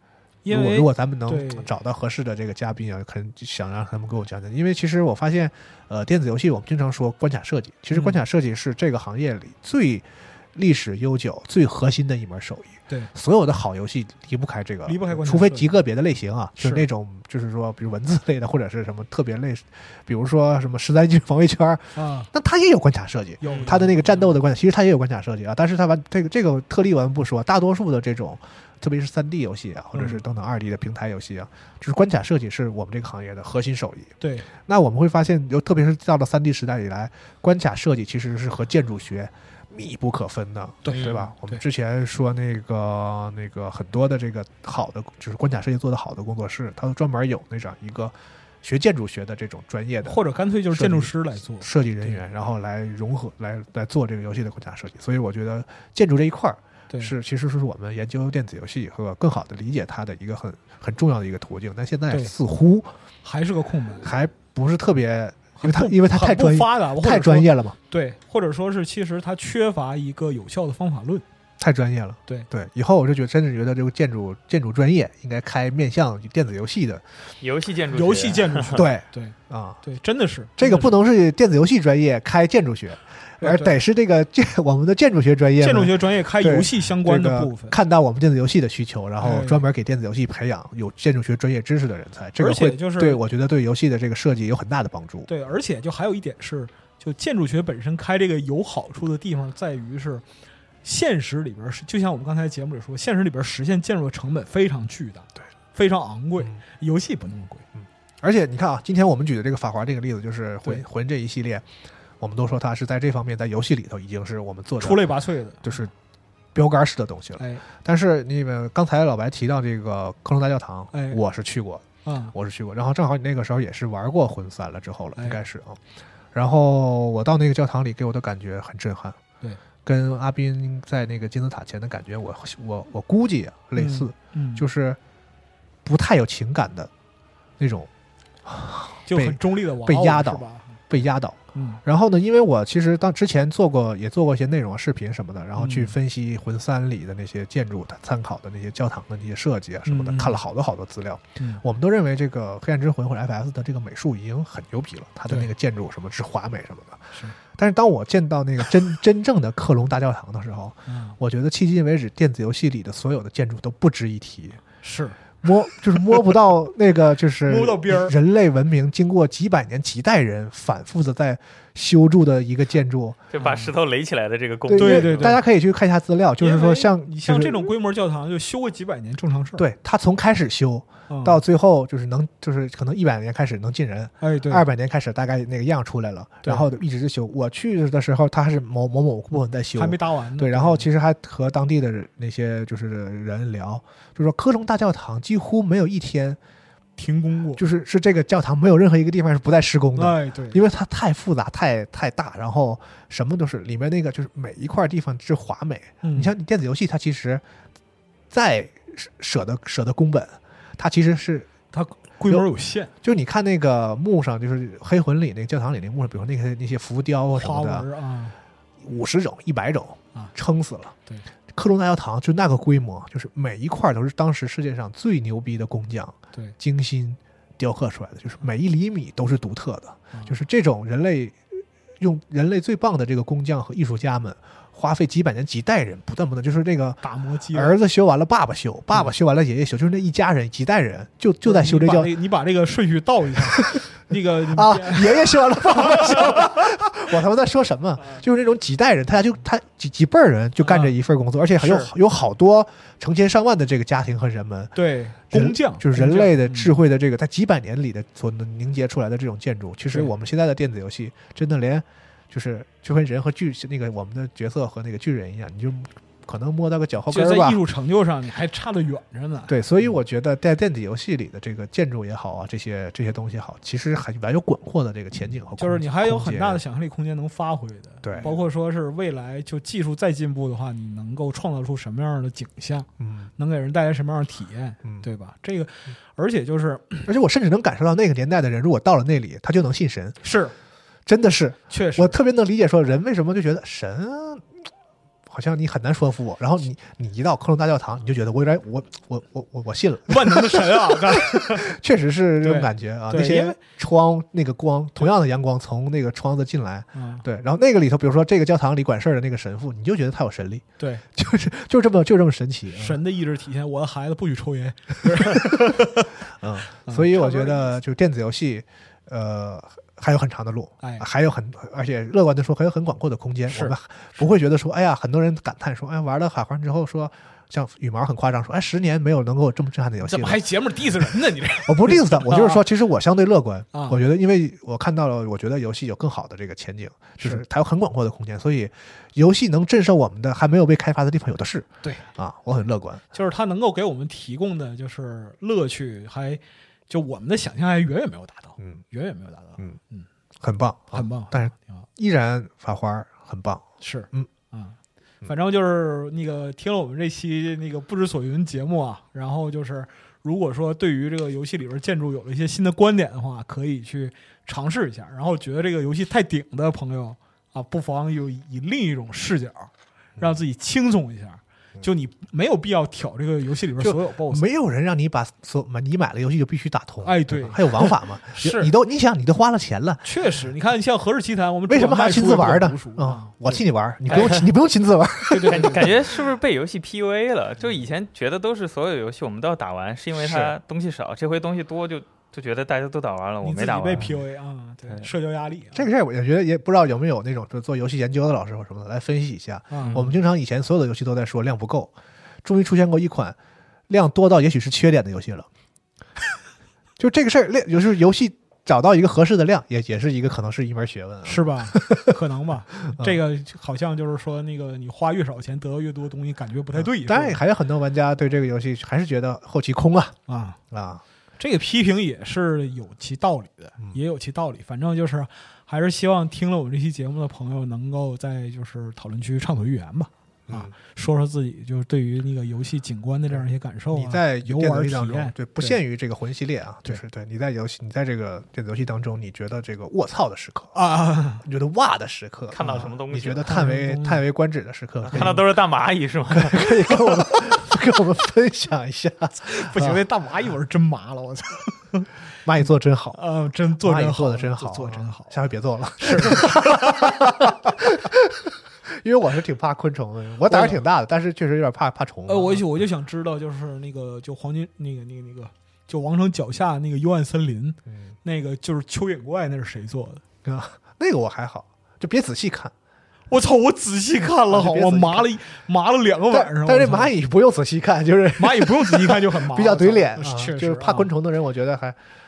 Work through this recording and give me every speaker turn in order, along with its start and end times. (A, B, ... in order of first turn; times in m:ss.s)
0:00.4-0:01.7 A
0:00.5-0:50.2 B
0:07.9-0:08.2 A
0:14.8-0:15.8 A
0:16.6-0:16.8 A
0:21.9-0:22.3 A
0:23.4-0:24.4 A
0:29.9-0:30.2 A
0:34.2-0:34.5 A
0:40.8-0:41.6 A
0:40.9-0:41.2 C
0:50.0-0:52.2 A
0:50.7-1:02.9 B
1:03.2-1:04.1 A
1:04.0-1:07.8 B
1:05.6-1:11.2 A
1:11.6-1:17.0 B
1:17.4-1:18.8 C
1:17.9-1:21.0 A
1:18.7-1:19.8 B
1:20.6-1:35.3 B
1:23.4-1:23.7 A
1:25.6-1:27.8 A
1:29.2-1:29.6 A
1:32.4-1:33.2 A
1:35.3-1:40.2 A
1:40.8-1:47.6 A
1:47.8-1:51.7 B
1:52.2-1:55.1 B
1:54.8-1:55.8 A
1:55.6-1:55.9 B
1:56.5-2:09.2 B
1:57.4-1:57.6 A
2:00.9-2:01.2 A
2:02.0-2:02.3 A
2:09.8-2:15.0 B
2:13.8-2:14.6 A
2:15.8-2:16.9 B
2:17.6-2:17.9 B
2:18.4-2:44.6 B
2:19.1-2:20.9 A
2:21.5-2:21.8 A
2:25.6-2:25.9 A
2:29.8-2:30.4 A
2:40.9-2:41.2 A
2:44.8-2:45.2 A
2:45.4-2:53.2 B
2:47.4-2:48.2 A
2:53.3-2:55.4 C
2:53.4-2:53.7 A
2:54.7-2:57.7 B
2:54.7-2:55.4 A
2:56.4-2:59.6 A
2:59.6-3:16.4 B
3:01.1-3:01.4 A
3:04.2-3:04.6 A
3:09.7-3:10.9 A
3:17.0-3:17.6 A
3:17.5-3:27.4 B
3:20.0-3:20.6 A
3:26.0-3:26.3 A
3:28.3-3:31.5 B
3:31.7-3:32.9 A
3:33.0-3:37.9 B
3:37.3-3:38.4 A
3:38.8-3:40.9 B
3:41.5-4:02.1 B
3:57.0-3:57.8 A
4:01.4-4:06.6 A
4:03.6-4:03.8 B
4:04.4-4:14.7 B
4:10.6-4:10.9 A
4:11.6-4:11.9 A
4:14.7-4:16.7 A
4:15.3-4:27.6 B
4:27.1-4:29.9 A
4:29.5-4:36.6 B
4:35.6-4:47.1 A
4:38.0-4:38.3 B
4:43.0-4:43.3 B
4:47.0-4:50.2 B
4:50.2-4:50.5 A
4:51.0-4:54.5 B
4:51.7-4:52.2 A
4:55.3-5:13.0 B
5:00.1-5:01.7 A
5:02.4-5:03.6 A
5:06.9-5:07.2 A
5:10.8-5:11.0 A
5:12.7-5:16.1 A
5:15.2-5:15.7 B
5:16.3-5:30.4 B
5:16.8-5:17.7 A
5:23.5-5:23.7 A
5:30.0-5:32.6 A
5:31.6-5:43.0 B
5:33.7-5:34.0 A
5:43.1-5:50.1 A
5:50.4-5:54.3 B
5:50.9-5:51.8 A
5:53.8-6:14.4 A
6:13.8-6:20.0 B
6:17.0-6:18.7 A
6:20.0-6:24.4 A
6:21.7-6:26.1 B
6:24.1-6:24.4 C
6:25.3-6:26.0 A
6:25.5-6:34.1 C
6:33.4-6:35.8 A
6:35.7-6:41.9 B
6:39.7-6:40.1 A
6:39.8-6:40.1 C
6:42.4-6:43.4 B
6:43.9-6:45.5 B
6:47.0-6:52.1 B
6:51.2-6:57.4 A
6:52.9-6:53.2 B
6:56.7-7:00.2 B
7:00.3-7:00.6 A
7:00.7-7:01.0 B
7:01.4-7:15.8 A
7:10.5-7:10.7 B
7:13.9-7:20.7 B
7:20.7-7:21.4 A
7:21.4-7:25.5 B
7:22.5-7:23.5 C
7:23.4-7:24.2 A
7:25.0-7:26.9 C
7:26.3-7:30.0 B
7:29.4-7:32.1 A
7:32.4-7:33.2 B
7:33.1-7:35.4 A
7:33.8-7:42.8 B
7:36.0-7:37.1 A
7:40.5-7:40.8 A
7:42.3-7:50.2 A
7:47.9-7:48.1 B
7:50.4-7:52.7 B
7:53.3-7:57.1 A
7:54.5-7:55.3 B
7:56.3-8:02.0 B
7:58.4-8:01.1 A